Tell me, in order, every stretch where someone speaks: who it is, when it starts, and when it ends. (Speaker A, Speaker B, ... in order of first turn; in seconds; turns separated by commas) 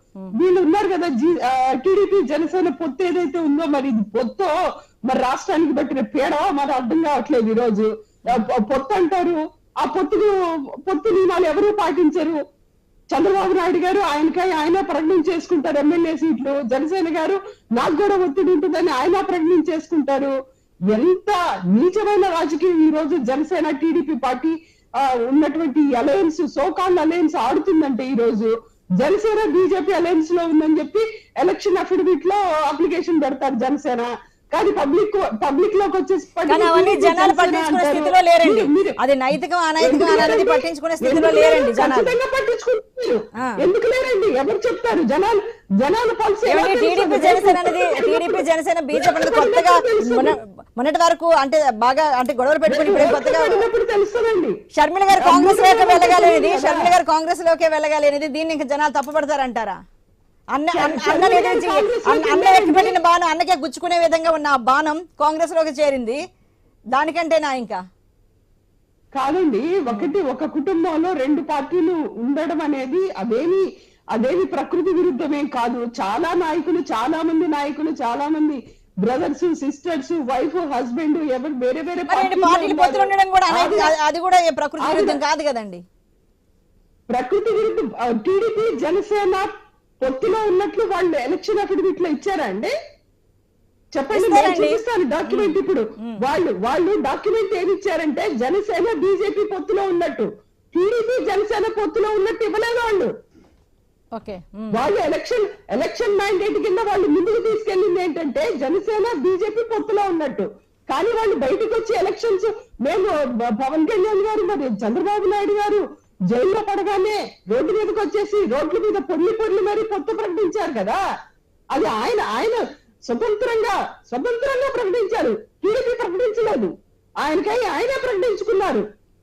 Speaker A: 0.4-4.5, Speaker A: 5.1-10.3, Speaker A: 10.9-12.4, Speaker A: 13.1-20.3, Speaker A: 20.9-39.0, Speaker B: 36.5-42.1, Speaker A: 39.8-50.3, Speaker B: 46.5-53.6, Speaker A: 52.7-54.5, Speaker B: 54.8-59.8, Speaker A: 55.2-56.9, Speaker B: 60.5-66.2, Speaker A: 60.7-63.0, Speaker B: 67.0-67.8, Speaker A: 69.2-73.6, Speaker B: 69.9-70.1, Speaker A: 74.1-83.9, Speaker B: 82.1-85.8, Speaker A: 84.8-85.2, Speaker A: 87.1-89.5, Speaker A: 90.0-92.7, Speaker A: 94.0-103.1, Speaker B: 94.1-96.2, Speaker B: 104.2-104.8, Speaker A: 104.7-121.0, Speaker A: 121.7-128.8